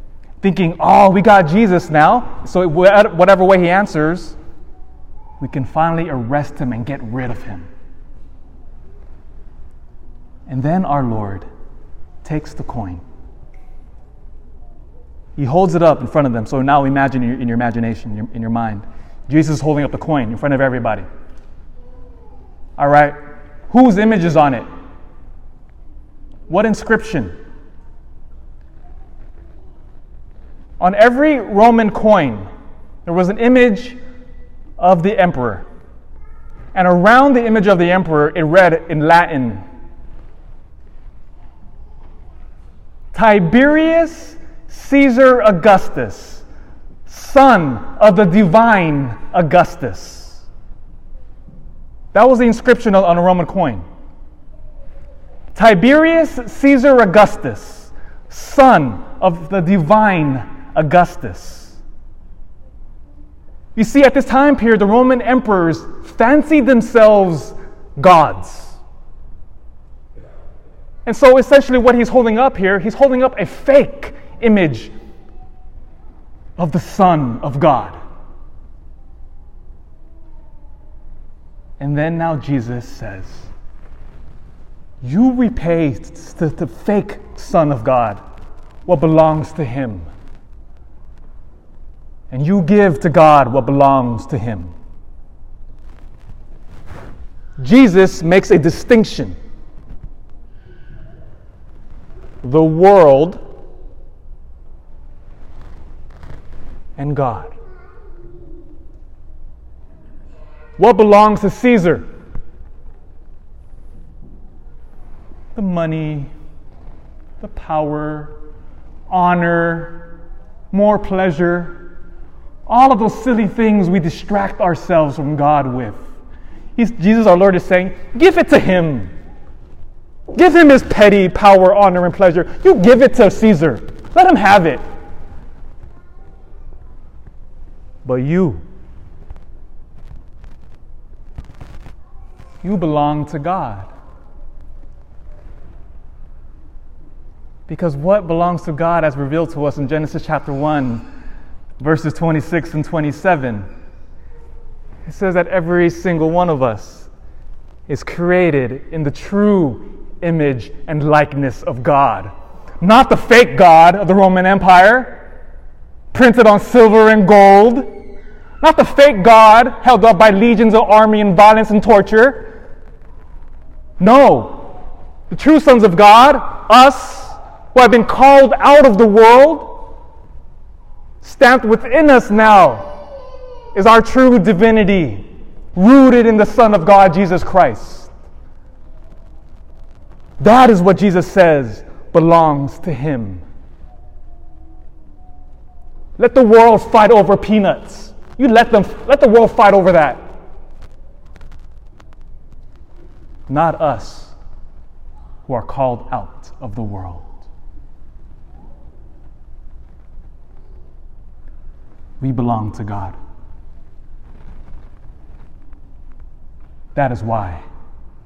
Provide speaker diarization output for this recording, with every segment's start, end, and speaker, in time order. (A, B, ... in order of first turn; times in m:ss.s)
0:00.4-0:04.4 A
0:05.4-0:07.7 A
0:10.5-0:11.5 A
0:12.2-0:13.0 A
0:15.4-0:21.1 A
0:22.8-0:24.7 A
0:26.5-0:27.3 A
0:30.8-0:32.5 A
0:33.0-0:34.0 A
0:34.8-0:35.7 A
0:36.7-0:39.6 A
0:43.1-0:46.4 A
0:47.1-0:50.4 A
0:52.1-0:53.8 A
0:55.5-1:01.8 A
1:03.8-1:08.8 A
1:11.1-1:14.9 A
1:16.6-1:18.0 A
1:21.8-1:23.5 A
1:25.0-1:28.2 A
1:28.9-1:30.1 A
1:32.3-1:34.7 A
1:37.6-1:39.4 A
1:42.4-1:43.4 A
1:47.0-1:47.5 A
1:50.8-1:52.1 A
1:55.6-1:56.3 A
1:57.4-1:58.4 A
1:59.1-2:00.1 A
2:00.7-2:01.8 A
2:02.7-2:06.0 A
2:06.8-2:09.1 A
2:10.3-2:14.8 A
2:18.0-2:18.6 A
2:22.6-2:23.9 A
2:27.7-2:31.1 A
2:31.8-2:33.7 A
2:35.0-2:37.1 A
2:37.9-2:45.2 A
2:46.1-2:47.9 A
2:48.6-2:52.5 A
2:54.0-2:54.8 A
2:55.3-2:59.9 A
3:01.2-3:03.0 A
3:03.7-3:08.1 A
3:10.4-3:13.4 A
3:16.2-3:20.2 A
3:23.5-3:24.4 A
3:25.5-3:27.4 A
3:32.2-3:33.2 A
3:37.0-3:37.6 A